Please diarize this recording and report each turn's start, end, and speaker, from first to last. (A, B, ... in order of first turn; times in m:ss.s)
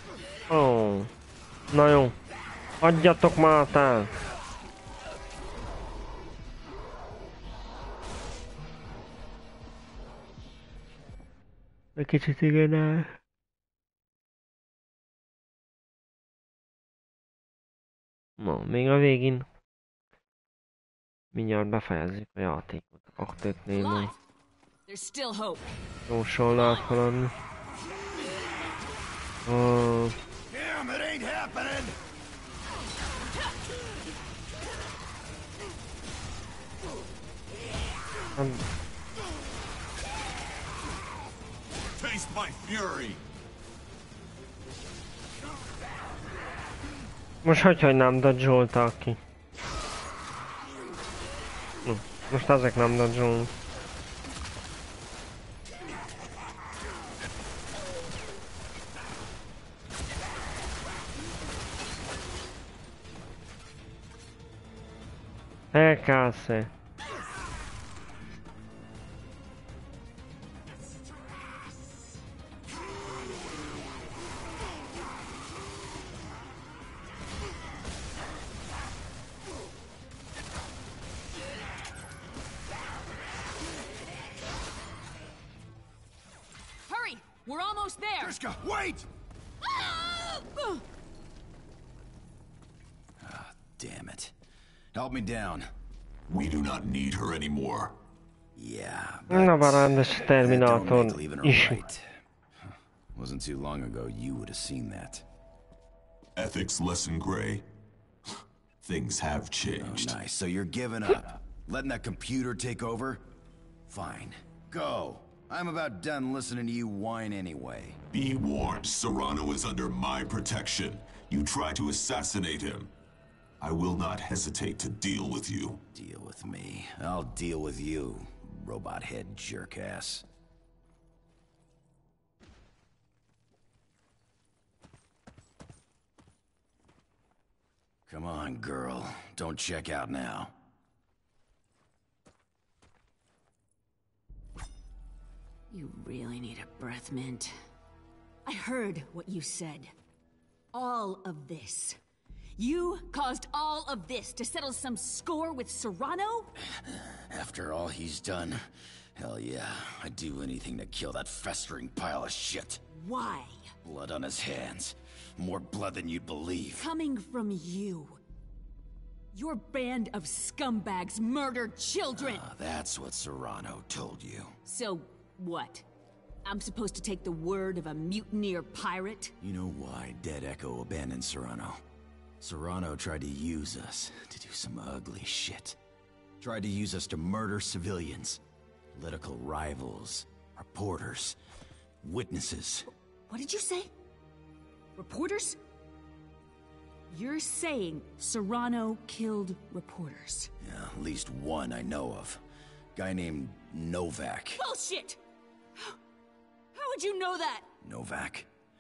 0:00.5-0:01.1 A
0:01.7-0:02.2 A
0:02.8-0:04.1 A
0:12.0-0:13.2 A
0:18.4-0:19.5 A
0:21.3-0:24.1 A
0:23.7-0:24.2 B
0:24.9-0:25.7 B
0:26.1-0:27.3 A
0:29.5-0:30.2 A
0:30.5-0:32.0 C
0:38.4-0:38.6 A
0:42.0-0:43.2 D
0:47.4-0:49.2 A
0:51.9-0:53.5 A
1:05.7-1:06.7 A
1:26.9-1:28.4 B
1:28.2-1:29.1 C
1:29.6-1:30.8 B
1:33.2-1:34.3 C
1:34.9-1:35.7 C
1:36.3-1:38.0 D
1:38.6-1:42.1 C
1:39.3-1:41.8 A
1:42.6-1:45.2 C
1:46.4-1:47.6 D
1:48.8-1:50.2 D
1:49.8-1:53.3 C
1:53.9-1:58.0 C
1:58.1-2:02.9 D
2:03.6-2:05.8 D
2:05.9-2:10.2 C
2:18.1-2:20.5 C
2:25.7-2:27.6 B
2:28.5-2:29.9 B
2:30.7-2:32.0 B
2:32.6-2:36.5 B
2:36.7-2:38.6 C
2:39.2-2:42.8 C
2:42.9-2:43.7 B
2:43.8-2:46.9 C
2:46.8-2:48.2 B
2:49.3-2:52.4 B
2:52.2-2:54.6 C
2:54.7-2:55.8 B
2:56.4-2:59.3 B
2:59.4-3:01.8 C
3:02.4-3:05.8 C
3:06.4-3:08.4 C
3:08.9-3:11.4 C
3:12.0-3:12.9 C
3:13.3-3:13.9 B
3:15.0-3:15.6 B
3:17.1-3:20.5 B
3:20.6-3:22.4 C
3:23.0-3:24.6 C
3:24.6-3:25.2 B
3:26.7-3:27.7 B
3:27.8-3:28.5 C